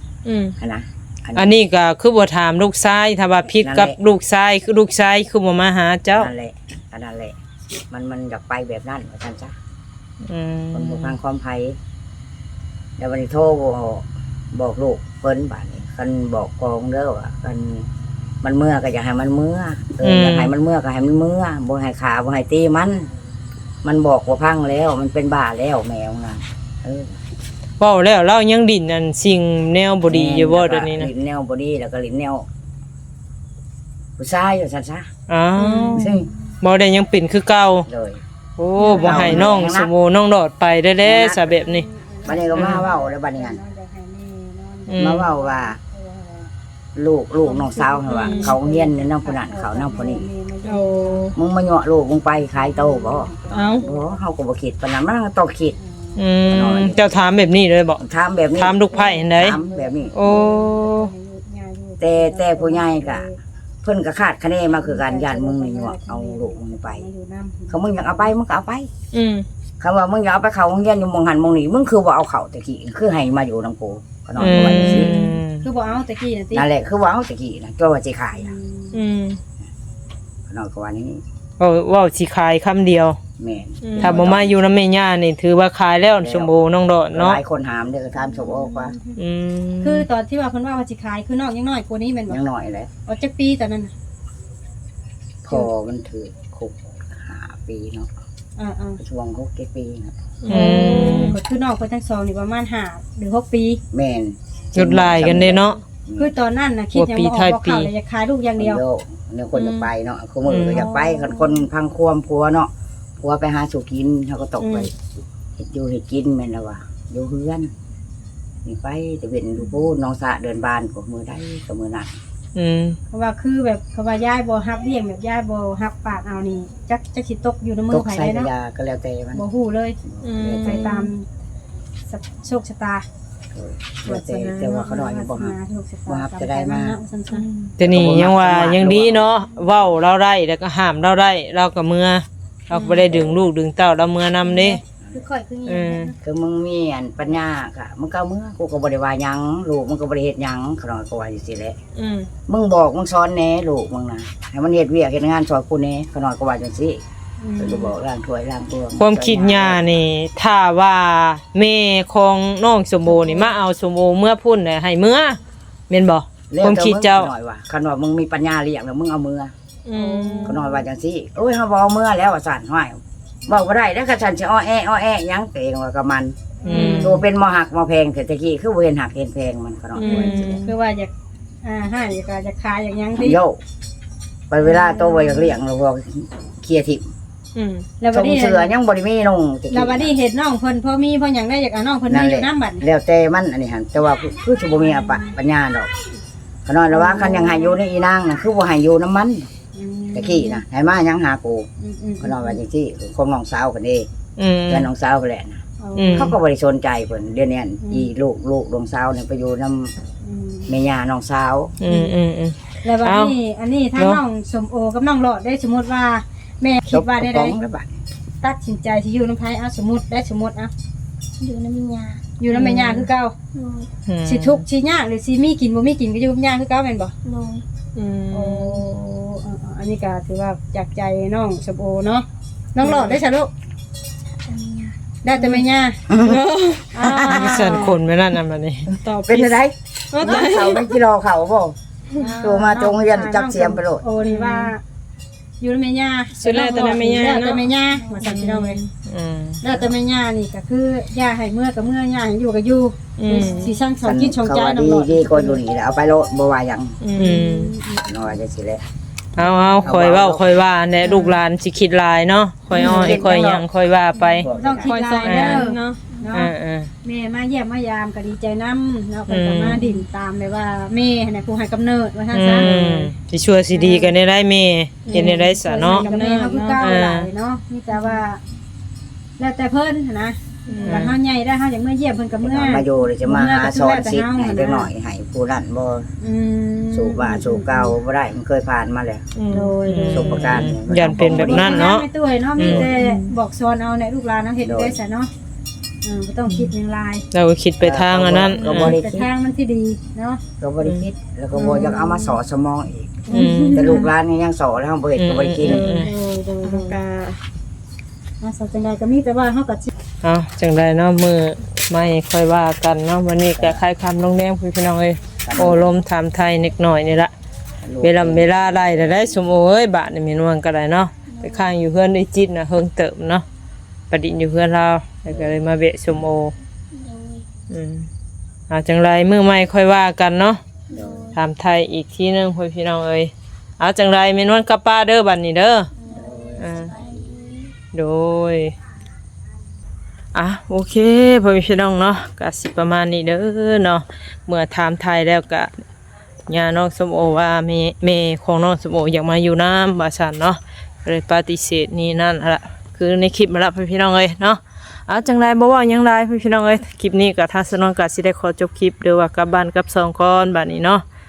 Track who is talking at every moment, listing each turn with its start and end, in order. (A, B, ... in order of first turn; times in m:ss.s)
0:00.2-0:00.5 A
0:00.6-0:01.5 B
0:01.3-0:06.3 C
0:03.6-0:04.0 B
0:06.1-0:07.4 B
0:07.9-0:09.6 B
0:10.3-0:11.1 C
0:10.7-0:11.8 B
0:13.0-0:17.9 B
0:18.4-0:23.1 B
0:20.0-0:20.5 C
0:23.8-0:27.2 B
0:27.8-0:31.1 C
0:30.0-0:32.5 B
0:34.2-0:35.1 B
0:35.3-0:37.8 C
0:35.6-0:36.3 D
0:36.0-0:36.3 B
0:37.9-0:38.2 B
0:38.6-0:41.8 C
0:38.8-0:39.6 D
0:39.0-0:39.9 B
0:41.0-0:41.6 B
0:41.6-0:46.5 D
0:42.2-0:43.6 B
0:42.5-0:42.8 C
0:44.9-0:45.3 C
0:45.0-0:45.8 B
0:47.0-0:50.2 B
0:47.4-0:51.3 D
0:48.1-0:48.5 A
0:50.6-0:51.4 A
0:51.3-0:55.8 B
0:52.5-0:54.2 D
0:53.5-0:53.8 A
0:55.8-0:56.2 D
0:56.2-0:58.0 C
0:56.5-0:57.0 B
0:58.0-1:00.2 B
0:58.6-0:59.6 C
0:58.9-1:03.4 D
1:00.1-1:01.1 C
1:02.0-1:03.2 B
1:03.8-1:07.0 B
1:04.8-1:08.3 D
1:07.7-1:08.9 B
1:09.1-1:09.4 A
1:09.8-1:15.1 B
1:14.4-1:15.6 C
1:14.4-1:15.4 A
1:14.7-1:16.7 D
1:16.5-1:18.5 B
1:18.4-1:19.0 D
1:18.9-1:19.4 A
1:20.5-1:21.2 B
1:21.6-1:23.2 C
1:23.4-1:24.6 B
1:23.8-1:24.2 A
1:24.0-1:27.4 C
1:26.2-1:26.5 B
1:27.1-1:29.0 B
1:28.2-1:29.2 D
1:29.2-1:30.1 C
1:29.8-1:32.4 D
1:32.3-1:32.9 B
1:33.0-1:33.9 D
1:35.4-1:38.1 B
1:38.6-1:39.0 D
1:39.0-1:40.2 B
1:40.4-1:41.4 A
1:40.5-1:41.4 C
1:40.5-1:43.8 D
1:43.9-1:46.3 B
1:44.8-1:45.8 C
1:46.2-1:48.8 D
1:46.9-1:47.9 C
1:48.6-1:54.9 B
1:49.6-1:49.8 A
1:50.5-1:50.8 C
1:50.7-1:51.6 D
1:54.6-1:54.9 D
1:55.6-1:57.7 B
1:58.6-2:02.1 B
2:02.5-2:03.0 C
2:03.1-2:08.5 D
2:07.9-2:09.4 B
2:09.3-2:10.0 D
2:10.1-2:11.0 B
2:10.2-2:11.1 A
2:10.6-2:11.3 D
2:12.1-2:13.0 D
2:13.5-2:15.5 B
2:14.0-2:17.4 D
2:16.1-2:17.0 B
2:17.3-2:17.8 A
2:17.8-2:24.8 C
2:17.8-2:19.3 B
2:22.7-2:23.1 D
2:22.9-2:23.4 B
2:24.4-2:26.2 D
2:25.6-2:26.1 C
2:26.2-2:31.8 B
2:32.0-2:32.3 A
2:32.5-2:37.0 B
2:37.4-2:37.9 D
2:37.6-2:40.0 B
2:39.0-2:45.4 C
2:43.0-2:43.5 D
2:45.9-2:47.3 C
2:46.5-2:49.5 B
2:49.9-2:50.6 A
2:49.9-2:50.8 D
2:50.4-3:00.6 B
2:56.6-2:57.1 D
2:56.6-2:57.2 C
2:56.7-2:57.0 A
3:00.0-3:00.7 A
3:00.0-3:01.1 D
3:01.6-3:03.4 D
3:03.2-3:03.6 B
3:04.5-3:07.1 B
3:04.6-3:05.6 D
3:07.5-3:07.9 A
3:08.0-3:08.7 D
3:08.1-3:10.1 B
3:09.7-3:12.8 D
3:12.1-3:15.9 B
3:14.9-3:15.3 D
3:16.6-3:19.5 B
3:16.9-3:17.8 D
3:19.7-3:20.6 D
3:20.1-3:21.7 B
3:21.8-3:22.6 D
3:22.2-3:24.1 B
3:24.4-3:24.9 C
3:24.7-3:25.6 B
3:25.8-3:26.3 D
3:26.0-3:26.3 C
3:26.1-3:29.9 B
3:27.8-3:28.1 D
3:30.2-3:30.7 D
3:30.7-3:31.8 B
3:31.8-3:33.3 C
3:31.8-3:32.1 D
3:32.8-3:37.6 D
3:36.9-3:37.9 B
3:38.4-3:40.7 D
3:41.4-3:42.2 E
3:42.4-3:43.3 D
3:42.5-3:43.0 C
3:43.5-3:43.9 E
3:44.0-3:44.6 C
3:44.2-3:47.1 D
3:47.2-3:47.6 E
3:47.9-3:48.8 A
3:48.3-3:53.5 D
3:52.8-3:53.2 A
3:54.4-3:54.9 E
3:55.2-3:56.0 D
3:56.1-3:56.4 B
3:56.1-3:57.2 A
3:56.9-3:58.0 D
3:57.0-3:57.8 B
3:57.2-3:58.9 C
3:59.0-3:59.6 A
3:59.2-4:01.8 B
4:00.1-4:00.9 A
4:02.2-4:04.8 D
4:02.4-4:04.0 B
4:04.2-4:04.7 A
4:05.6-4:08.8 D
4:06.4-4:08.9 A
4:07.8-4:08.2 E
4:09.0-4:09.6 C
4:09.6-4:15.6 D
4:13.2-4:13.8 A
4:14.0-4:17.0 B
4:17.0-4:17.4 A
4:17.2-4:18.1 D
4:17.2-4:17.7 C
4:18.0-4:18.8 B
4:19.4-4:24.5 C
4:19.4-4:19.8 A
4:19.8-4:20.6 B
4:21.0-4:21.4 D
4:22.7-4:23.5 D
4:22.8-4:23.2 A
4:22.8-4:23.6 B
4:24.2-4:26.5 D
4:24.4-4:24.9 B
4:24.8-4:26.0 A
4:25.2-4:25.6 C
4:26.1-4:26.4 E
4:26.3-4:26.9 C
4:27.0-4:33.1 D
4:29.3-4:29.8 C
4:32.3-4:36.1 C
4:33.7-4:34.1 D
4:35.0-4:36.9 A
4:35.1-4:38.4 D
4:36.8-4:37.3 C
4:39.4-4:44.9 D
4:40.7-4:41.1 A
4:40.9-4:41.1 C
4:42.4-4:46.1 B
4:46.2-4:47.9 D
4:46.9-4:49.2 B
4:49.3-4:49.8 A
4:49.5-4:55.3 D
4:49.9-4:52.0 C
4:50.1-4:51.9 B
4:52.6-4:52.9 C
4:52.6-4:52.9 B
4:53.0-4:53.3 A
4:54.6-4:55.0 B
4:56.0-4:57.2 D
4:57.3-4:58.9 C
4:57.8-4:59.3 B
4:58.6-5:00.4 D
5:00.6-5:05.9 B
5:01.5-5:02.4 D
5:03.3-5:03.9 A
5:03.3-5:04.1 D
5:03.3-5:03.9 C
5:05.2-5:06.1 C
5:05.7-5:07.0 D
5:05.8-5:06.1 A
5:06.6-5:07.4 A
5:08.4-5:09.9 D
5:10.2-5:17.3 C
5:13.5-5:13.8 B
5:15.4-5:15.9 B
5:17.8-5:18.6 B
5:18.0-5:23.4 C
5:21.3-5:21.7 E
5:24.1-5:26.5 C
5:25.3-5:25.6 B
5:26.9-5:27.4 E
5:27.7-5:28.1 C
5:28.7-5:30.6 C
5:30.9-5:31.4 E
5:30.9-5:31.3 B
5:31.3-5:35.9 C
5:35.9-5:37.7 E
5:36.1-5:37.3 B
5:36.6-5:36.9 C
5:37.9-5:38.7 C
5:40.3-5:45.7 C
5:46.5-6:01.0 C